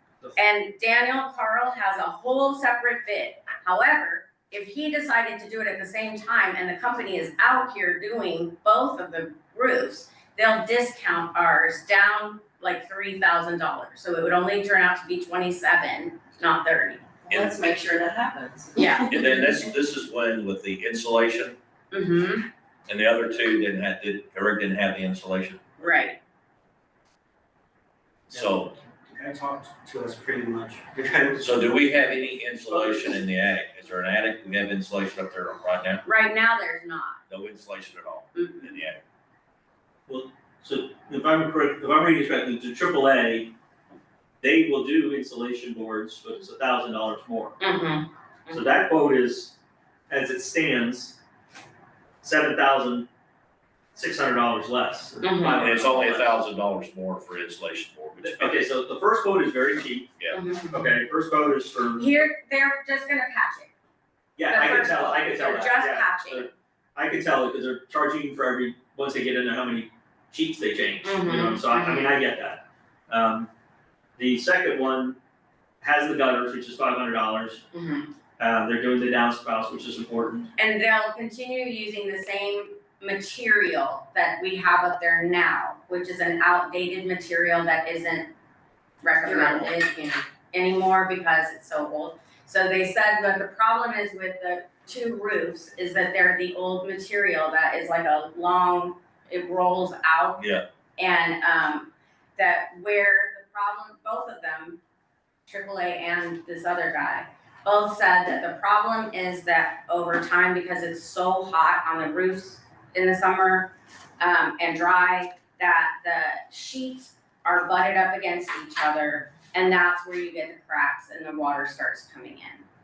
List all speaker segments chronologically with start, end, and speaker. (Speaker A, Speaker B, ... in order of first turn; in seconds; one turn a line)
Speaker A: 0.3-17.0
Speaker B: 17.3-19.4
Speaker C: 17.3-17.6
Speaker A: 18.7-19.2
Speaker C: 19.1-21.6
Speaker A: 21.9-22.4
Speaker C: 22.9-25.9
Speaker A: 25.8-26.2
Speaker C: 28.3-28.7
Speaker D: 29.1-31.4
Speaker C: 31.4-36.0
Speaker E: 32.6-33.2
Speaker A: 36.0-37.2
Speaker C: 37.3-39.0
Speaker A: 38.3-38.8
Speaker E: 40.1-43.5
Speaker E: 44.4-47.6
Speaker A: 47.6-48.6
Speaker E: 48.5-49.5
Speaker E: 50.1-51.2
Speaker E: 52.2-53.0
Speaker E: 53.9-56.4
Speaker A: 55.2-55.7
Speaker C: 55.6-58.7
Speaker E: 58.2-60.1
Speaker A: 60.3-60.9
Speaker E: 60.7-62.2
Speaker A: 62.0-63.7
Speaker E: 64.4-73.5
Speaker A: 64.5-66.5
Speaker A: 71.0-72.1
Speaker E: 74.2-75.2
Speaker E: 75.8-77.6
Speaker E: 78.4-80.5
Speaker A: 80.6-88.3
Speaker A: 89.0-100.4
Speaker B: 89.2-89.7
Speaker C: 100.4-100.6
Speaker A: 101.0-104.8
Speaker A: 105.5-122.6